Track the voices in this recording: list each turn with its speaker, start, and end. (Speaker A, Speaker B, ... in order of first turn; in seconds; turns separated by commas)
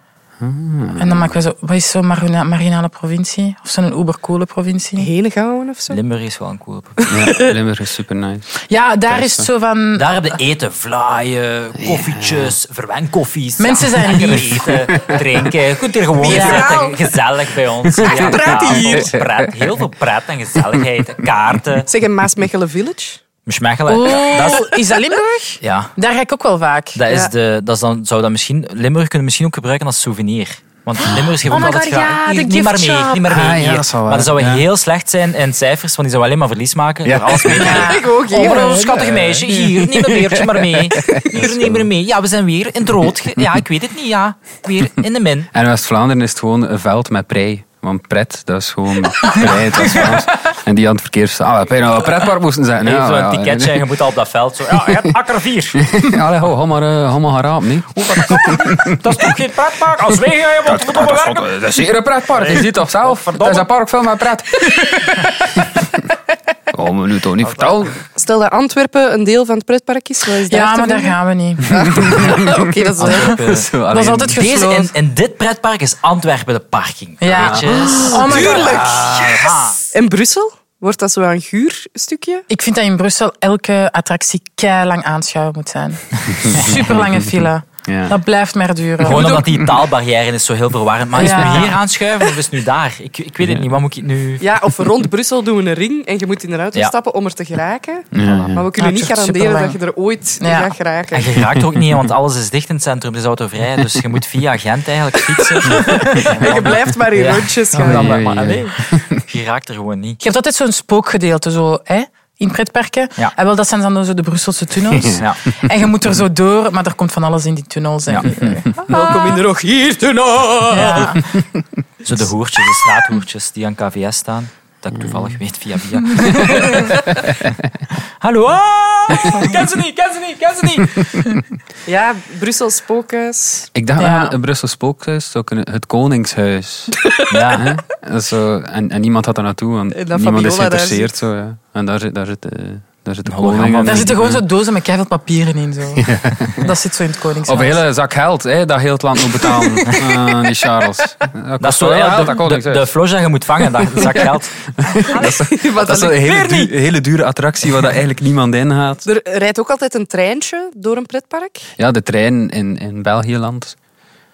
Speaker A: 0.4-1.4, Speaker B: 1.0-5.1, Speaker C: 5.0-6.0, Speaker D: 5.9-7.0, Speaker C: 7.0-7.4, Speaker A: 7.1-9.5, Speaker B: 8.7-10.1, Speaker D: 9.9-21.9, Speaker A: 11.9-12.5, Speaker B: 13.6-14.7, Speaker C: 16.2-17.1, Speaker B: 16.2-16.7, Speaker A: 17.9-19.5, Speaker B: 18.1-19.1, Speaker C: 18.2-18.6, Speaker C: 21.9-23.2, Speaker D: 23.5-24.7, Speaker B: 23.9-27.0, Speaker D: 25.6-25.9, Speaker D: 26.9-45.5, Speaker B: 31.5-33.4, Speaker A: 33.3-34.7, Speaker A: 37.0-37.9, Speaker B: 37.6-39.0, Speaker C: 37.7-38.7, Speaker A: 38.4-41.9, Speaker A: 45.5-53.9, Speaker D: 49.5-50.2, Speaker D: 52.8-55.8, Speaker A: 54.8-55.1, Speaker A: 55.8-59.2, Speaker D: 58.0-61.5, Speaker A: 60.7-64.7, Speaker D: 62.3-63.7, Speaker B: 64.6-65.6, Speaker A: 66.7-68.0, Speaker C: 68.2-71.2, Speaker B: 70.5-72.5, Speaker C: 71.7-73.3, Speaker A: 72.0-74.4, Speaker D: 73.0-73.6, Speaker B: 73.0-74.9, Speaker D: 74.3-79.8, Speaker B: 77.2-78.8, Speaker A: 77.3-78.6, Speaker C: 78.1-82.5, Speaker B: 82.5-89.4, Speaker A: 86.5-88.2, Speaker D: 89.0-94.5, Speaker C: 89.1-89.5, Speaker B: 91.2-91.8, Speaker A: 91.2-91.7, Speaker A: 93.4-93.7, Speaker C: 94.4-101.3, Speaker A: 98.2-98.7, Speaker B: 98.8-99.8, Speaker B: 100.4-100.7, Speaker D: 101.1-110.2, Speaker A: 101.4-102.0, Speaker C: 106.2-108.2, Speaker A: 107.8-109.2, Speaker B: 110.2-119.4, Speaker A: 114.9-115.2, Speaker D: 115.2-115.4, Speaker C: 118.9-121.2, Speaker B: 120.7-121.2, Speaker D: 122.0-127.1, Speaker A: 124.9-125.4, Speaker D: 128.2-130.9, Speaker B: 129.3-130.0, Speaker C: 131.9-133.7, Speaker A: 133.7-144.5, Speaker B: 134.0-134.4, Speaker C: 137.2-137.6, Speaker D: 137.3-137.7, Speaker C: 139.9-141.1, Speaker D: 143.3-144.0, Speaker B: 143.9-147.8, Speaker A: 146.0-146.7, Speaker A: 147.4-152.9, Speaker B: 149.5-150.1, Speaker D: 151.6-154.5, Speaker A: 154.0-159.1, Speaker C: 155.1-156.7, Speaker C: 159.1-161.7, Speaker A: 161.8-163.8